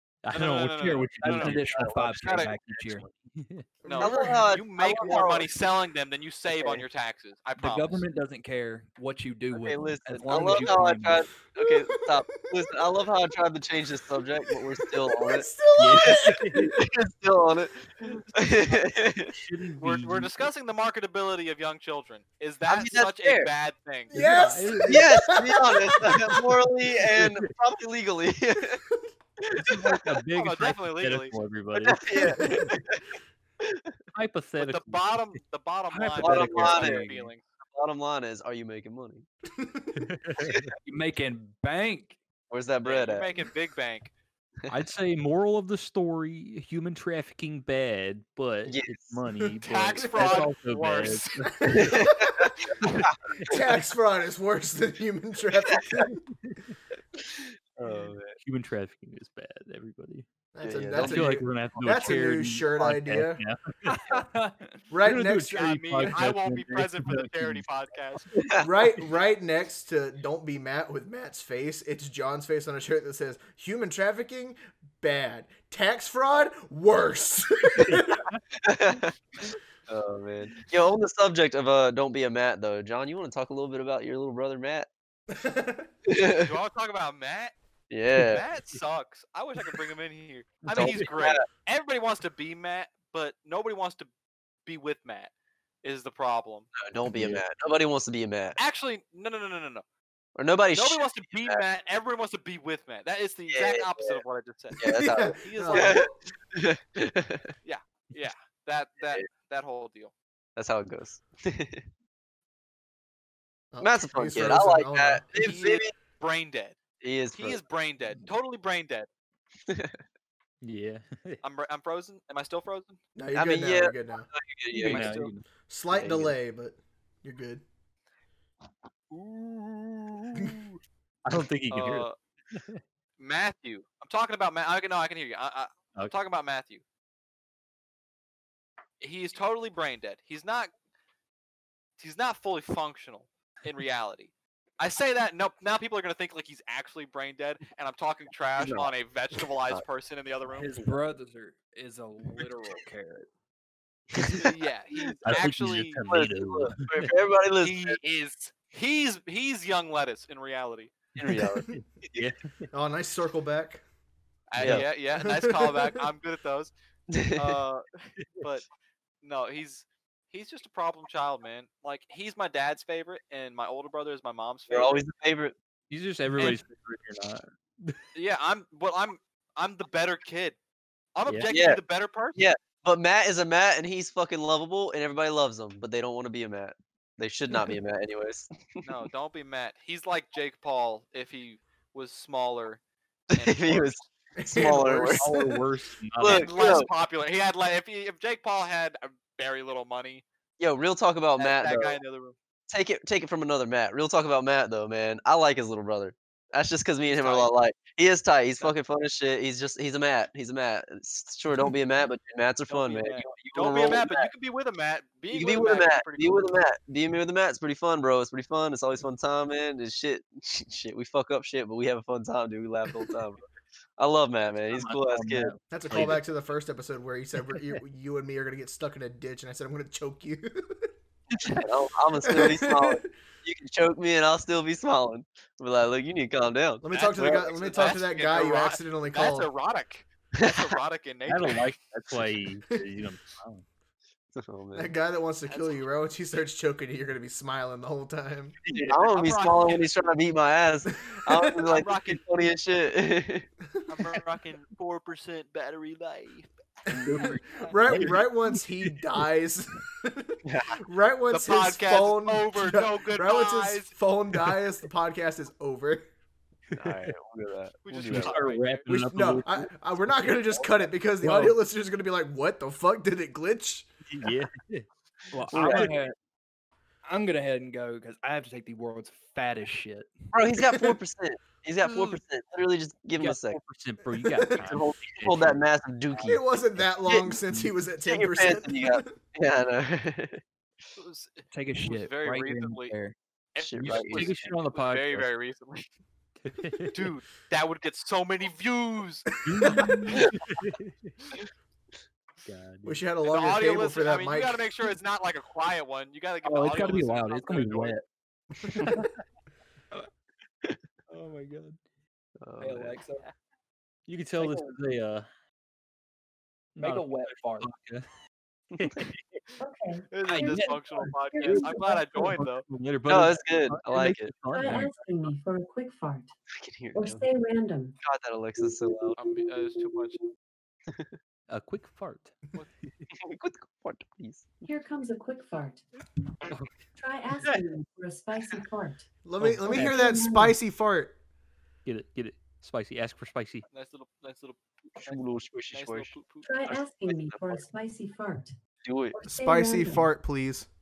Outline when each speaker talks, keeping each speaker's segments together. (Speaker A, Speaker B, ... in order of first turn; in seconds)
Speaker A: 0.2-3.6, 15.8-16.7, 19.3-20.5, 24.1-25.0, 27.1-27.5, 29.5-32.6, 34.1-35.1, 36.0-37.3, 40.0-40.7, 44.7-51.9, 52.8-53.6, 56.4-56.7, 58.4-60.3, 60.9-64.0, 65.0-68.2, 90.6-91.1, 120.6-121.4, 124.8-125.4, 131.2-132.8, 155.3-157.1, 161.7-162.5, 164.6-164.8, 175.9-178.0, 181.2-181.5, 195.2-196.8, 224.7-226.2, 227.5-227.8, 241.3-243.6, 257.9-258.6, 266.7-267.1, 268.1-269.7, 274.1-274.9, 283.2-285.6, 294.1-295.3, 296.4-297.1, 299.4-301.1, 302.4-303.0, 307.4-307.9, 308.7-309.1, 311.1-311.8, 314.1-315.3, 316.8-318.1, 318.7-319.4, 321.5-325.3, 331.5-333.1, 339.4-340.2, 341.8-343.6
Speaker B: 0.3-2.5, 3.9-8.0, 19.8-24.1, 30.4-31.3, 34.6-37.4, 42.8-44.1, 49.6-51.9, 65.5-68.2, 86.4-87.5, 88.1-94.1, 94.7-95.3, 95.8-96.7, 98.6-99.8, 100.7-106.1, 107.6-110.1, 115.3-116.8, 117.3-119.1, 121.4-123.0, 129.1-130.8, 131.7-132.2, 133.2-136.8, 139.0-140.7, 142.0-150.8, 154.3-156.0, 157.6-161.0, 164.5-166.7, 167.3-168.7, 169.2-175.0, 176.3-176.6, 178.1-180.6, 181.1-182.4, 188.8-192.8, 193.3-194.0, 196.2-200.2, 201.4-202.3, 207.1-207.5, 212.7-216.6, 236.9-241.7, 245.5-245.8, 248.7-249.8, 251.7-252.2, 253.9-256.5, 261.3-263.9, 267.8-268.9, 291.0-292.9, 293.5-295.9, 296.9-299.3, 303.2-308.0, 320.1-322.6, 329.2-330.2, 343.7-346.8
Speaker C: 1.1-3.0, 7.6-11.3, 35.9-37.1, 40.8-42.2, 63.8-64.8, 124.7-125.4, 150.5-153.3, 257.0-258.1, 271.2-271.6, 275.3-276.1, 277.0-280.3, 291.5-293.1, 293.7-294.3, 306.5-308.0, 312.6-313.2, 314.4-314.7, 316.8-317.8, 320.2-321.1
Speaker D: 3.8-4.4, 11.6-12.7, 14.6-16.8, 24.1-26.3, 32.4-32.7, 39.6-40.1, 50.2-50.5, 51.6-52.4, 53.5-56.1, 60.5-63.4, 64.9-66.0, 68.6-78.2, 85.3-85.9, 104.8-106.0, 113.7-115.2, 123.2-124.3, 125.7-127.6, 162.7-163.8, 165.1-166.0, 194.3-195.6, 225.7-230.9, 232.2-233.1, 236.8-239.5, 244.7-248.6, 251.1-251.5, 256.9-266.1, 268.9-273.9, 284.3-284.6, 286.2-289.1, 299.5-300.0, 302.8-304.6, 339.2-341.1, 349.2-350.7
Speaker E: 4.0-5.5, 6.5-6.8, 9.5-15.5, 16.1-19.3, 22.7-23.5, 24.9-28.8, 29.4-30.0, 31.8-33.0, 36.2-37.0, 37.6-39.2, 40.4-40.7, 42.5-43.3, 48.6-49.1, 51.7-53.2, 55.8-56.1, 57.2-58.4, 60.6-61.3, 68.3-68.6, 78.6-84.9, 86.1-86.5, 87.9-88.4, 90.7-91.4, 96.8-98.6, 100.3-101.6, 103.5-104.2, 104.8-107.5, 110.5-111.8, 113.8-115.9, 117.0-117.6, 119.7-120.0, 123.3-125.3, 148.6-149.8, 154.1-154.5, 155.2-155.4, 156.1-158.0, 161.2-162.3, 164.6-164.9, 167.1-167.6, 174.7-175.5, 181.5-181.8, 182.3-188.5, 193.3-195.2, 196.2-196.9, 200.6-202.0, 202.7-214.3, 215.3-223.4, 224.0-225.5, 231.4-237.8, 240.4-240.8, 244.3-244.9, 248.7-253.5, 260.4-260.8, 266.8-268.4, 275.5-275.9, 280.3-283.6, 284.6-286.4, 287.1-287.4, 288.1-290.4, 293.6-294.3, 312.4-313.0, 323.1-324.5, 326.5-327.2, 328.0-329.2, 330.9-331.1, 333.2-334.6, 345.0-346.3, 347.0-347.6, 348.8-349.2
Speaker F: 319.6-322.2, 324.5-326.3, 326.9-327.9, 334.6-335.8, 337.0-339.1, 339.7-340.6, 346.4-348.5, 349.1-350.1